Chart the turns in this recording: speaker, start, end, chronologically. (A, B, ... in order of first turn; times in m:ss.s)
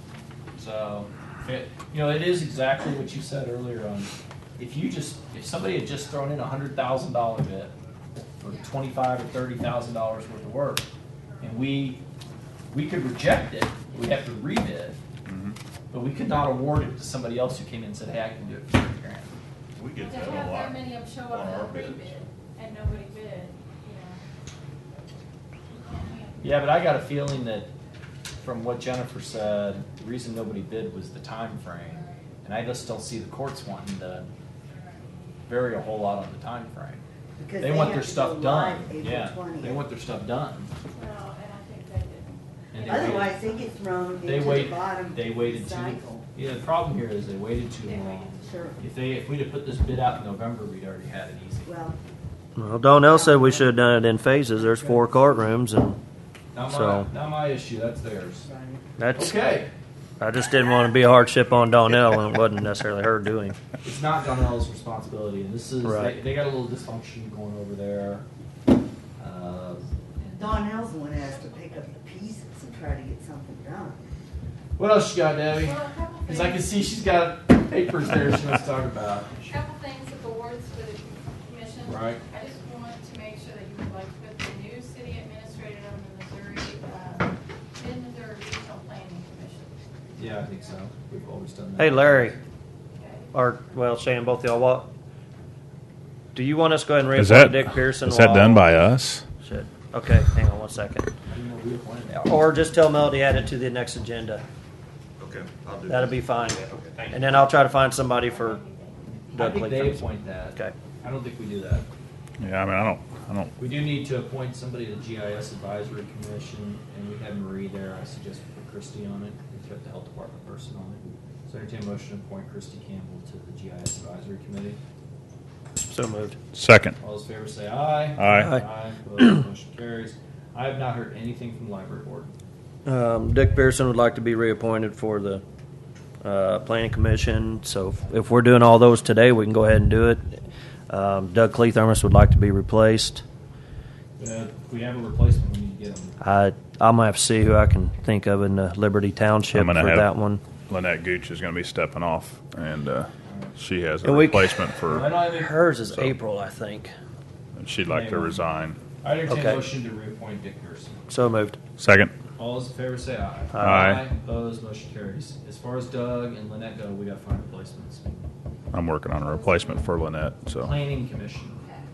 0:00.6-0:07.7 A
0:08.4-0:10.9 A
0:11.4-0:12.0 A
0:12.7-0:15.0 A
0:15.3-0:15.6 B
0:15.9-0:19.3 A
0:19.8-0:22.2 B
0:20.0-0:24.2 C
0:25.7-0:27.1 C
0:26.4-0:27.7 A
0:28.4-0:34.3 A
0:35.4-0:37.0 A
0:37.4-0:39.8 D
0:37.6-0:40.7 A
0:40.9-0:43.3 C
0:42.7-0:43.5 A
0:42.8-0:46.2 D
0:44.2-0:51.7 A
0:47.8-0:48.7 C
0:48.4-0:48.8 D
0:51.6-0:52.0 D
0:52.6-0:56.0 E
0:53.0-0:53.8 D
0:54.5-0:55.6 D
0:56.5-0:58.5 A
0:56.7-0:57.1 E
0:58.4-0:58.8 D
0:59.0-0:59.4 E
0:59.1-0:59.7 A
1:00.2-1:03.6 E
1:03.8-1:08.2 A
1:05.8-1:06.2 E
1:09.2-1:10.6 A
1:10.3-1:14.0 D
1:14.8-1:19.6 A
1:15.5-1:16.8 C
1:19.5-1:29.8 C
1:21.8-1:22.2 A
1:30.2-1:32.4 A
1:31.8-1:32.4 E
1:33.0-1:33.3 C
1:33.3-1:34.9 E
1:36.3-1:38.8 E
1:37.2-1:39.3 B
1:39.4-1:41.1 E
1:41.3-1:42.4 A
1:42.2-1:44.4 E
1:45.2-1:47.5 F
1:45.2-1:45.7 B
1:45.8-1:48.6 E
1:48.0-1:49.2 C
1:49.3-1:51.9 A
1:49.3-1:50.0 E
1:52.4-1:53.5 B
1:53.6-2:04.8 A
2:05.8-2:06.4 E
2:06.5-2:06.9 B
2:07.0-2:12.3 A
2:08.2-2:08.5 B
2:12.9-2:15.4 E
2:16.2-2:23.2 E
2:24.2-2:26.2 A
2:26.2-2:30.4 E
2:29.5-2:30.1 B
2:30.7-2:35.1 B
2:33.2-2:33.6 A
2:34.0-2:36.9 E
2:34.9-2:35.5 A
2:37.6-2:38.8 B
2:37.9-2:38.4 A
2:39.0-2:41.0 A
2:39.3-2:39.6 E
2:41.1-2:41.6 E
2:41.8-2:42.1 B
2:42.4-2:48.2 A
2:43.5-2:43.8 E
2:43.6-2:44.0 B
2:48.7-2:50.7 B
2:50.6-2:51.6 A